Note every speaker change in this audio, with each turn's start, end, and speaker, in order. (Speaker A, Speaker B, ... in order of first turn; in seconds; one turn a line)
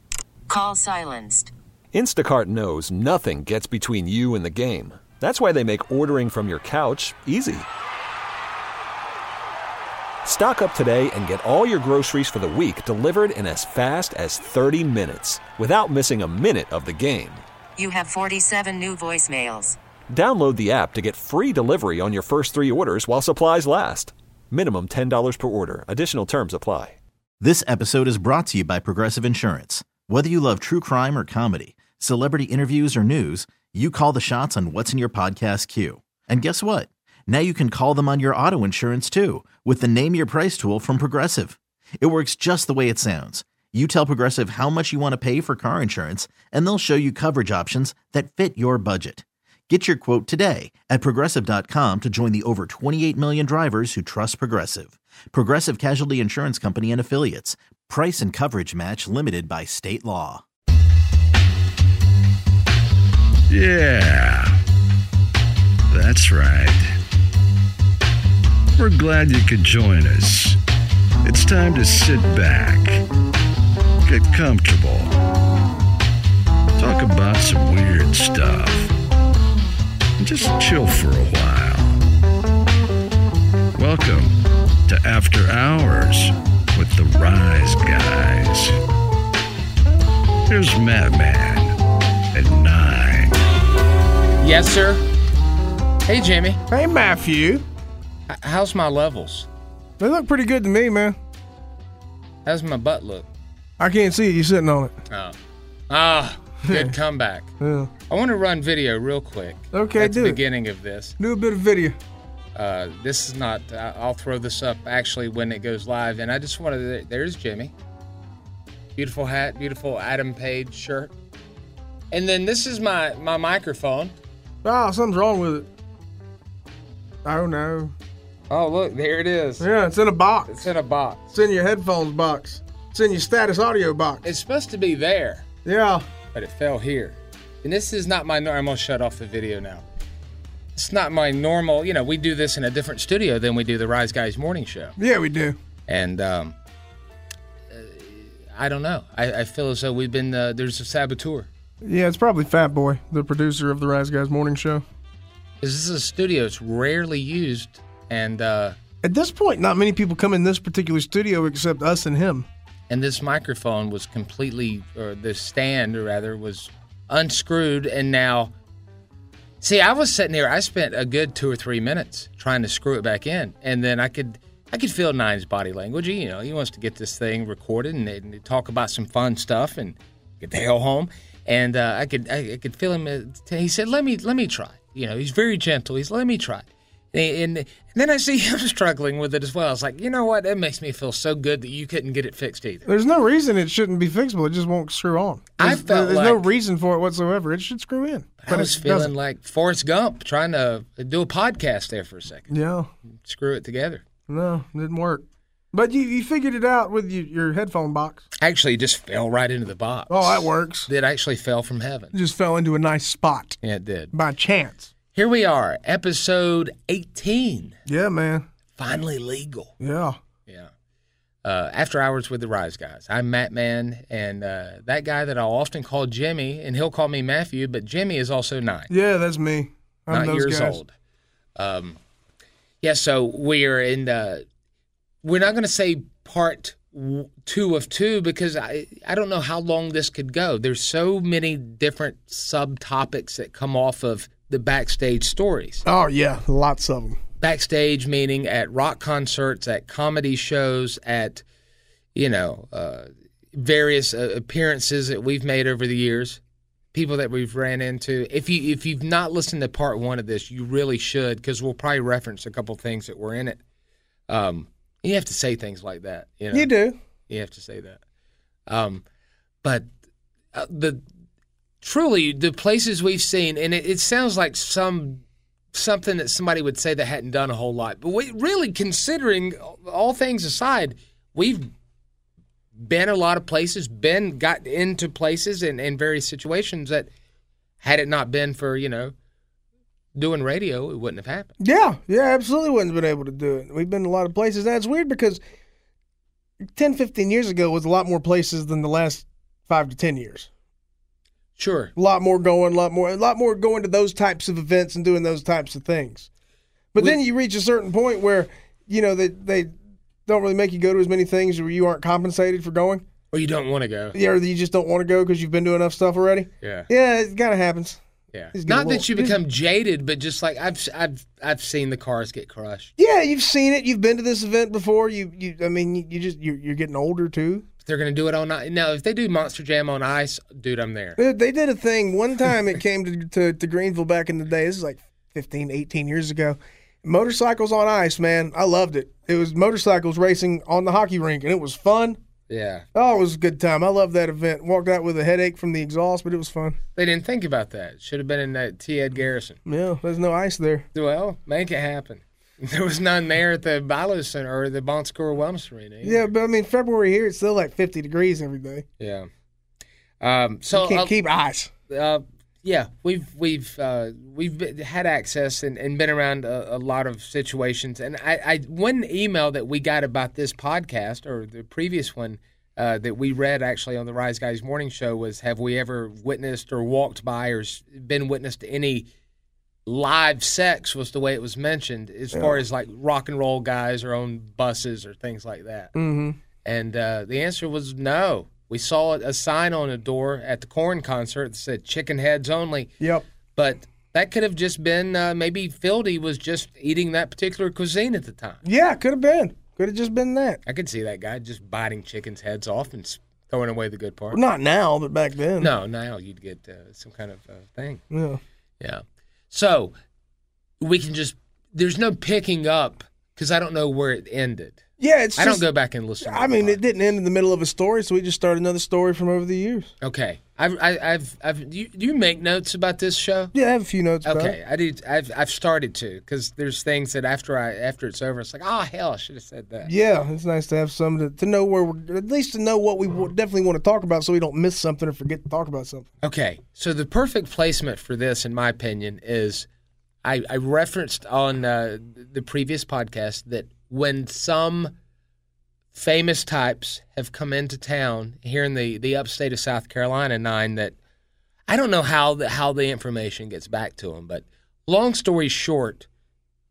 Speaker A: 0.5-1.5
Speaker B: 1.9-7.7
Speaker B: 10.2-17.4
Speaker A: 17.8-19.8
Speaker B: 20.1-27.0
Speaker C: 27.4-60.4
Speaker D: 63.5-64.6
Speaker D: 65.9-67.0
Speaker D: 68.8-70.6
Speaker D: 71.2-73.0
Speaker D: 74.1-75.1
Speaker D: 76.8-78.9
Speaker D: 80.2-82.0
Speaker D: 83.8-88.8
Speaker D: 90.5-91.8
Speaker D: 92.3-93.4
Speaker E: 94.4-95.1
Speaker E: 96.1-96.6
Speaker F: 96.7-97.7
Speaker E: 98.3-99.5
Speaker F: 100.0-101.2
Speaker E: 102.5-103.3
Speaker F: 103.8-105.0
Speaker E: 105.1-105.3
Speaker E: 105.9-107.5
Speaker F: 106.6-107.0
Speaker F: 107.6-107.9
Speaker E: 108.1-111.2
Speaker F: 109.7-110.4
Speaker F: 111.2-112.0
Speaker E: 112.5-117.7
Speaker E: 119.0-121.1
Speaker E: 122.1-124.1
Speaker F: 124.6-125.7
Speaker F: 127.2-127.9
Speaker E: 128.5-129.7
Speaker F: 129.6-130.6
Speaker E: 130.5-131.3
Speaker F: 131.3-134.2
Speaker E: 134.2-135.5
Speaker F: 135.7-136.1
Speaker E: 136.3-139.8
Speaker E: 140.8-145.0
Speaker F: 145.0-145.6
Speaker E: 145.9-146.6
Speaker E: 147.7-151.5
Speaker F: 151.8-154.8
Speaker E: 155.6-158.8
Speaker F: 159.0-162.5
Speaker E: 162.9-168.5
Speaker E: 169.6-192.9
Speaker F: 192.9-199.1
Speaker E: 195.6-196.5
Speaker E: 198.4-202.5
Speaker F: 202.5-202.9
Speaker E: 203.2-204.0
Speaker F: 204.3-208.2
Speaker E: 208.4-212.2
Speaker F: 210.1-210.9
Speaker F: 212.1-213.6
Speaker E: 213.6-214.1
Speaker F: 214.1-214.9
Speaker E: 215.1-217.8
Speaker F: 217.9-218.5
Speaker E: 218.8-219.7
Speaker F: 219.8-220.2
Speaker E: 221.4-228.9
Speaker F: 228.9-230.8
Speaker E: 230.1-230.9
Speaker E: 231.6-232.0
Speaker E: 232.8-234.4
Speaker E: 235.2-245.8
Speaker F: 245.8-247.2
Speaker E: 247.4-251.4
Speaker E: 252.2-256.4
Speaker E: 256.9-263.6
Speaker E: 264.3-266.7
Speaker F: 266.5-267.0
Speaker E: 267.3-268.0
Speaker E: 268.7-269.0
Speaker E: 270.5-271.0
Speaker E: 271.8-275.2
Speaker E: 275.7-281.7
Speaker E: 282.8-287.1
Speaker E: 287.8-289.1
Speaker E: 290.1-291.5
Speaker F: 291.6-295.4
Speaker F: 296.7-300.5
Speaker E: 301.6-301.9
Speaker F: 302.0-306.3
Speaker F: 306.9-309.7
Speaker F: 310.3-313.1
Speaker E: 313.3-314.2
Speaker F: 314.1-318.0
Speaker E: 316.6-316.9
Speaker E: 318.3-322.9
Speaker F: 318.5-319.4
Speaker F: 323.0-327.7
Speaker E: 327.9-331.2
Speaker F: 331.2-342.2
Speaker E: 342.5-342.9
Speaker F: 342.9-346.8
Speaker E: 347.0-349.6
Speaker F: 349.7-350.9
Speaker E: 350.9-356.3
Speaker F: 356.0-358.9
Speaker E: 359.0-359.3
Speaker E: 360.2-361.1
Speaker F: 360.7-361.7
Speaker E: 361.9-379.1
Speaker E: 379.9-385.9
Speaker F: 382.3-382.6
Speaker F: 385.9-386.4
Speaker E: 386.6-392.9
Speaker F: 393.0-393.3
Speaker E: 393.6-398.6
Speaker F: 398.6-400.6
Speaker E: 400.7-404.4
Speaker F: 404.3-405.7
Speaker E: 405.6-408.0
Speaker F: 408.1-408.4
Speaker E: 408.8-409.9
Speaker E: 410.8-414.8
Speaker F: 415.0-415.7
Speaker E: 415.4-416.8
Speaker F: 416.2-419.9
Speaker E: 420.0-423.5
Speaker F: 423.5-424.6
Speaker E: 424.2-429.9
Speaker F: 429.8-436.1
Speaker E: 436.2-439.7
Speaker E: 440.2-444.9
Speaker E: 445.9-451.0
Speaker E: 451.7-456.1